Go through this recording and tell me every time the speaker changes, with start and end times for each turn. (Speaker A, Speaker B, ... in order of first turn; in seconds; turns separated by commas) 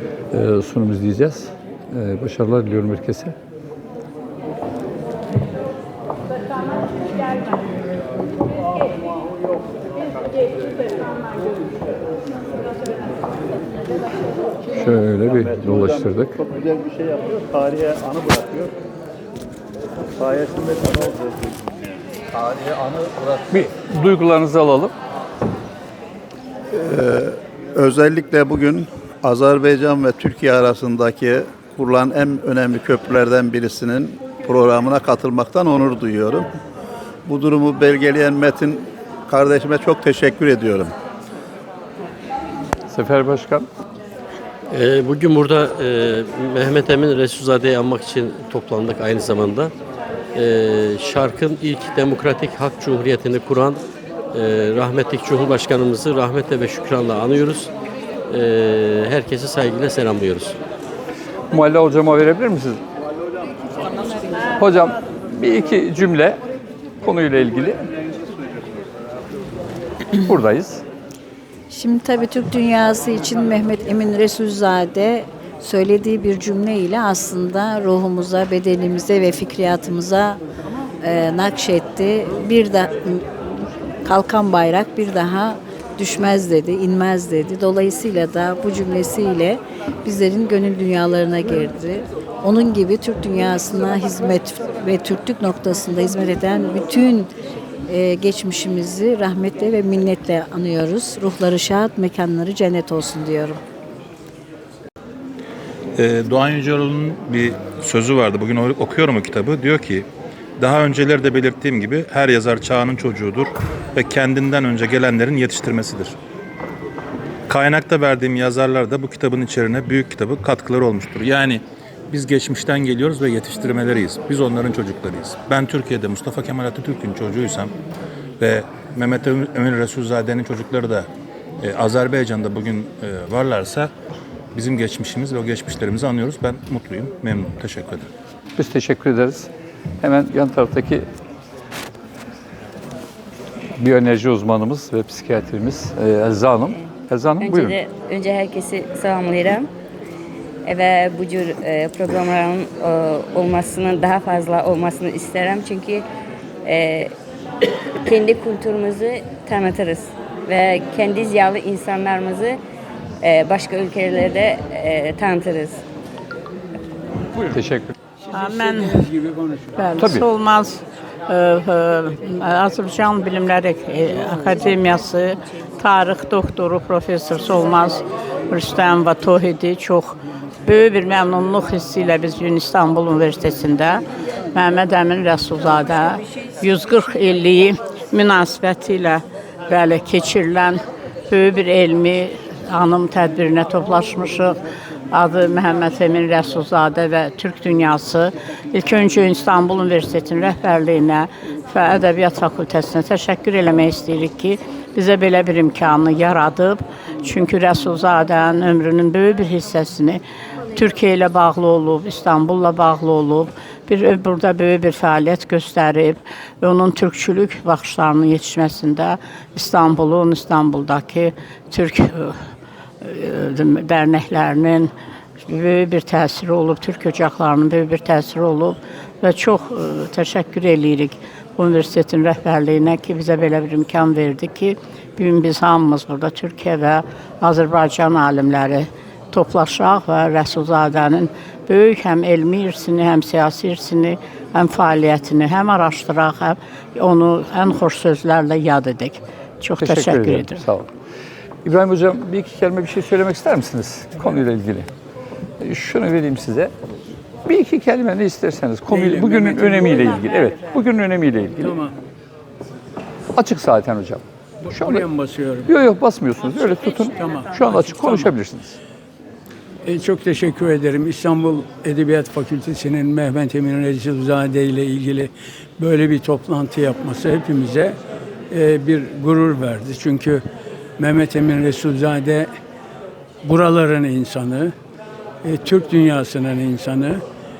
Speaker A: 0.3-3.4, Speaker A: 14.7-16.4, Speaker A: 22.3-24.9, Speaker B: 26.7-36.5, Speaker B: 37.2-40.9, Speaker A: 42.9-43.7, Speaker C: 44.7-49.7, Speaker C: 50.3-53.8, Speaker C: 54.3-57.7, Speaker C: 58.3-60.6, Speaker A: 61.5-62.8, Speaker A: 64.5-66.4, Speaker A: 67.0-67.9, Speaker A: 70.1-70.8, Speaker D: 71.7-80.4, Speaker D: 81.0-83.5, Speaker D: 84.0-97.3, Speaker D: 97.9-103.6, Speaker E: 105.9-110.0, Speaker E: 110.6-116.1, Speaker E: 117.5-127.7, Speaker E: 128.4-131.1, Speaker E: 131.6-133.9, Speaker E: 134.5-138.1, Speaker A: 138.6-139.5, Speaker A: 140.0-141.1, Speaker A: 143.8-147.8, Speaker F: 147.4-149.7, Speaker F: 150.7-156.0, Speaker F: 156.7-157.1, Speaker F: 158.1-162.6, Speaker F: 163.2-165.8, Speaker A: 167.3-167.9, Speaker G: 168.3-169.8, Speaker H: 168.3-169.1, Speaker H: 169.8-194.6, Speaker A: 170.0-170.2, Speaker H: 195.1-210.2, Speaker H: 210.7-222.5, Speaker H: 223.0-224.9, Speaker H: 225.4-250.6, Speaker A: 249.8-250.9, Speaker A: 251.6-254.9, Speaker A: 255.6-256.7, Speaker A: 257.4-261.8, Speaker G: 258.9-260.2, Speaker G: 261.6-262.0, Speaker A: 263.3-265.1, Speaker G: 264.6-265.7, Speaker A: 265.6-268.8, Speaker G: 267.1-268.3, Speaker G: 269.8-278.0, Speaker G: 278.5-280.4, Speaker G: 281.0-282.5, Speaker G: 283.4-284.7, Speaker G: 285.4-287.2